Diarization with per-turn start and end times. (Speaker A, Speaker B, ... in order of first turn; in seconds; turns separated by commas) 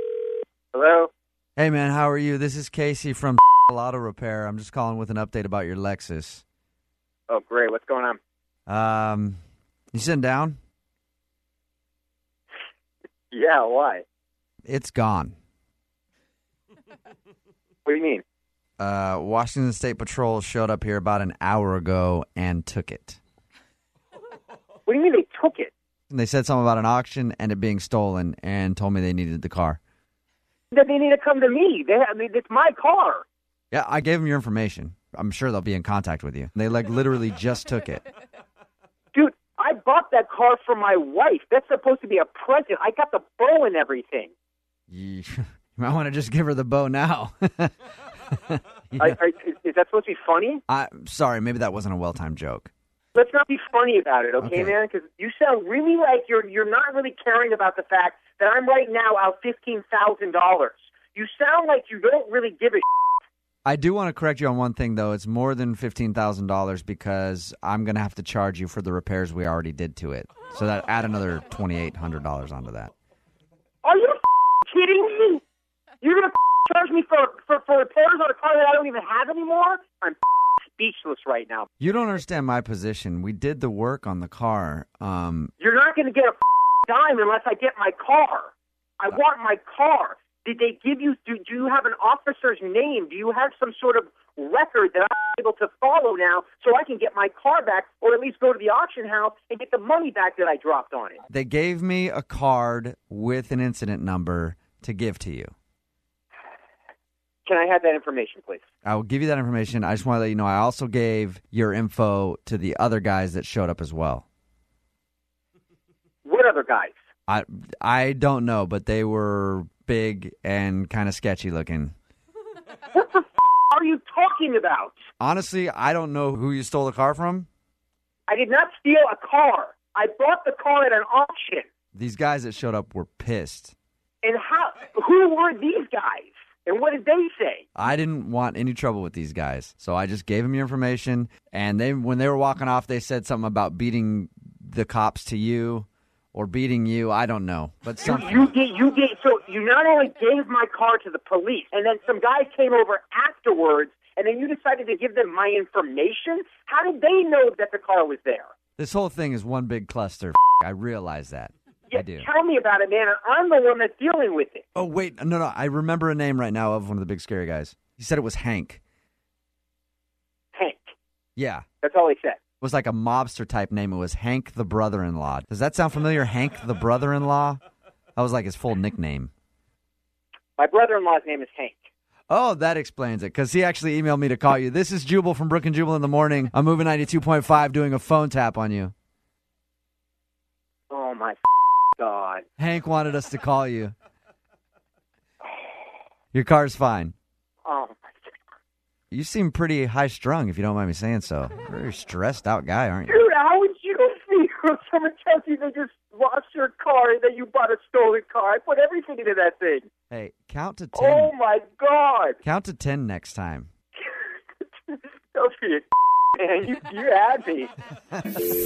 Speaker A: 0.7-1.1, Speaker B: 1.6-6.4, Speaker A: 7.3-8.2, Speaker B: 8.7-9.4, Speaker B: 9.9-10.6, Speaker A: 13.3-14.0, Speaker B: 14.7-15.3, Speaker A: 17.9-18.2, Speaker B: 18.8-23.2, Speaker A: 24.9-25.7, Speaker B: 26.1-29.8, Speaker A: 30.7-33.2, Speaker B: 33.7-38.0, Speaker A: 39.1-44.3, Speaker B: 44.9-47.8, Speaker B: 48.5-49.1, Speaker A: 49.0-50.6, Speaker B: 50.7-52.7, Speaker A: 53.1-62.8, Speaker B: 54.4-54.7, Speaker B: 63.6-72.9, Speaker A: 73.8-75.4, Speaker A: 76.0-81.7, Speaker B: 81.8-85.5, Speaker A: 85.6-101.2, Speaker B: 101.3-105.5, Speaker A: 107.4-108.6, Speaker B: 108.8-114.2, Speaker A: 116.2-116.9, Speaker B: 117.3-121.9, Speaker A: 122.9-125.0, Speaker B: 125.2-127.5, Speaker A: 128.3-131.7, Speaker B: 131.9-133.7, Speaker A: 134.2-137.7, Speaker B: 137.8-148.5, Speaker A: 148.0-158.5, Speaker B: 158.8-162.3, Speaker A: 161.9-164.7, Speaker B: 164.7-168.8, Speaker A: 170.5-170.9, Speaker B: 171.4-171.6, Speaker A: 171.8-172.4, Speaker B: 172.6-177.6, Speaker B: 178.2-179.3, Speaker A: 180.6-181.8, Speaker B: 182.3-188.9, Speaker A: 190.9-191.4, Speaker A: 192.0-192.4, Speaker B: 192.6-193.9, Speaker B: 196.3-197.1, Speaker A: 197.6-198.2, Speaker B: 199.1-203.2, Speaker A: 203.1-209.8, Speaker B: 210.1-211.3, Speaker A: 210.9-212.4, Speaker B: 212.4-213.7, Speaker A: 214.9-217.7